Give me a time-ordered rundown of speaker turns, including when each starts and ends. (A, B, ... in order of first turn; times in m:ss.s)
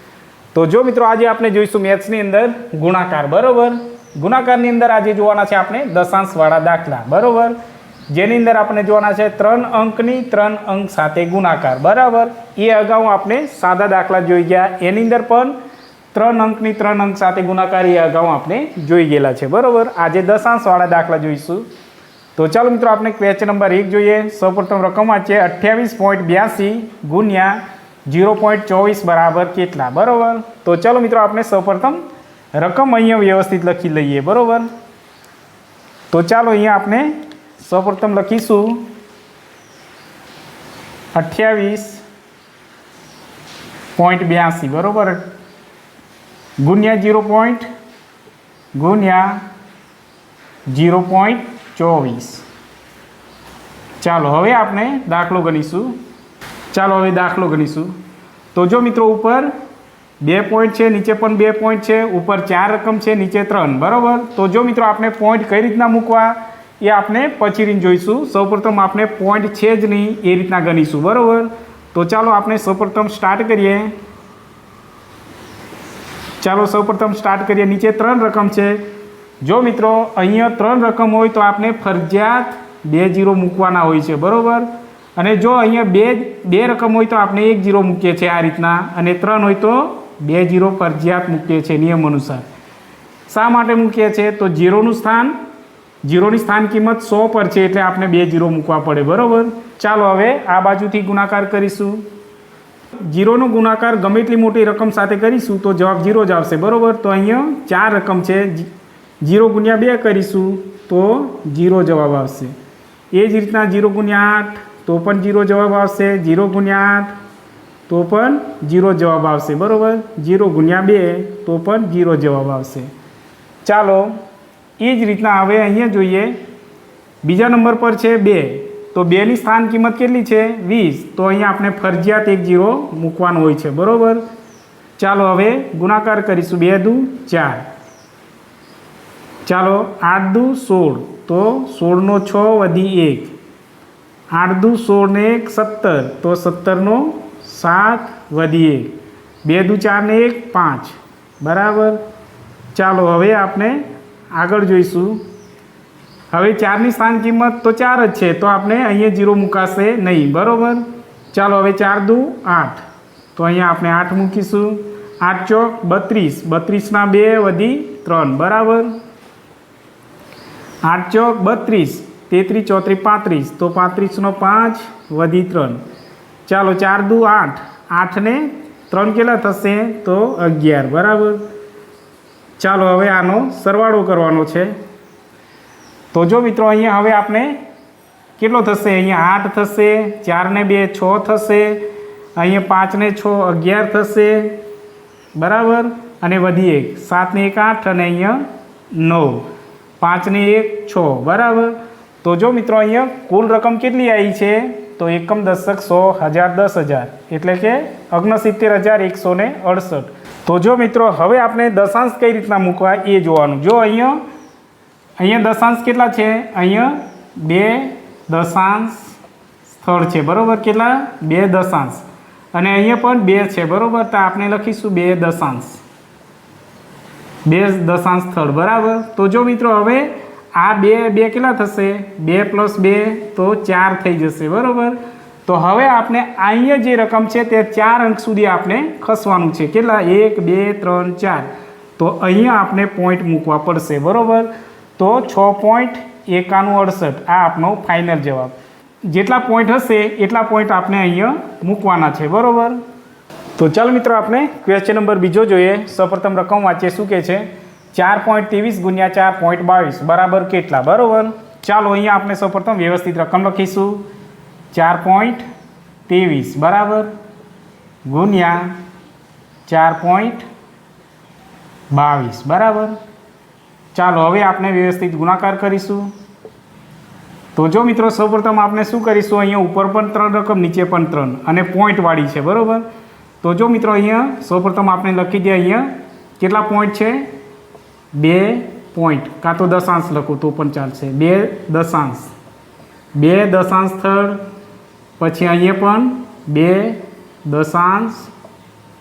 0:00.5-0:07.6 A
0:08.1-0:15.6 A
0:16.1-0:21.7 A
0:22.4-0:32.0 A
0:32.6-0:34.7 A
0:36.1-0:38.9 A
0:41.1-0:42.0 A
0:44.0-0:45.3 A
0:46.6-0:47.7 A
0:48.7-0:49.4 A
0:50.7-0:52.4 A
0:54.0-0:56.0 A
0:56.7-0:57.9 A
0:58.5-0:59.5 A
1:00.2-1:13.9 A
1:16.4-1:18.8 A
1:19.4-1:32.5 A
1:33.3-1:35.4 A
1:36.0-1:42.0 A
1:43.1-1:48.7 A
1:49.2-1:52.6 A
1:53.1-1:57.1 A
1:57.9-2:02.9 A
2:03.6-2:04.2 A
2:04.8-2:06.4 A
2:07.2-2:14.2 A
2:15.0-2:17.7 A
2:19.5-2:23.3 A
2:24.3-2:32.0 A
2:32.7-2:33.8 A
2:34.3-2:35.2 A
2:36.3-2:42.8 A
2:43.4-2:48.9 A
2:50.8-2:55.8 A
2:56.5-3:01.5 A
3:02.6-3:04.7 A
3:06.1-3:07.6 A
3:08.4-3:11.8 A
3:12.4-3:14.6 A
3:15.4-3:19.5 A
3:20.0-3:34.2 A
3:35.2-3:39.2 A
3:39.7-3:45.8 A
3:47.4-4:12.8 A
4:13.6-4:24.0 A
4:24.7-4:25.4 A
4:26.1-4:27.1 A
4:28.1-4:28.8 A
4:29.7-4:30.5 A
4:31.9-4:33.0 A
4:33.9-4:36.1 A
4:37.6-4:42.9 A
4:43.4-4:47.3 A
4:48.1-4:52.3 A
4:53.1-4:54.4 A
4:55.2-4:58.3 A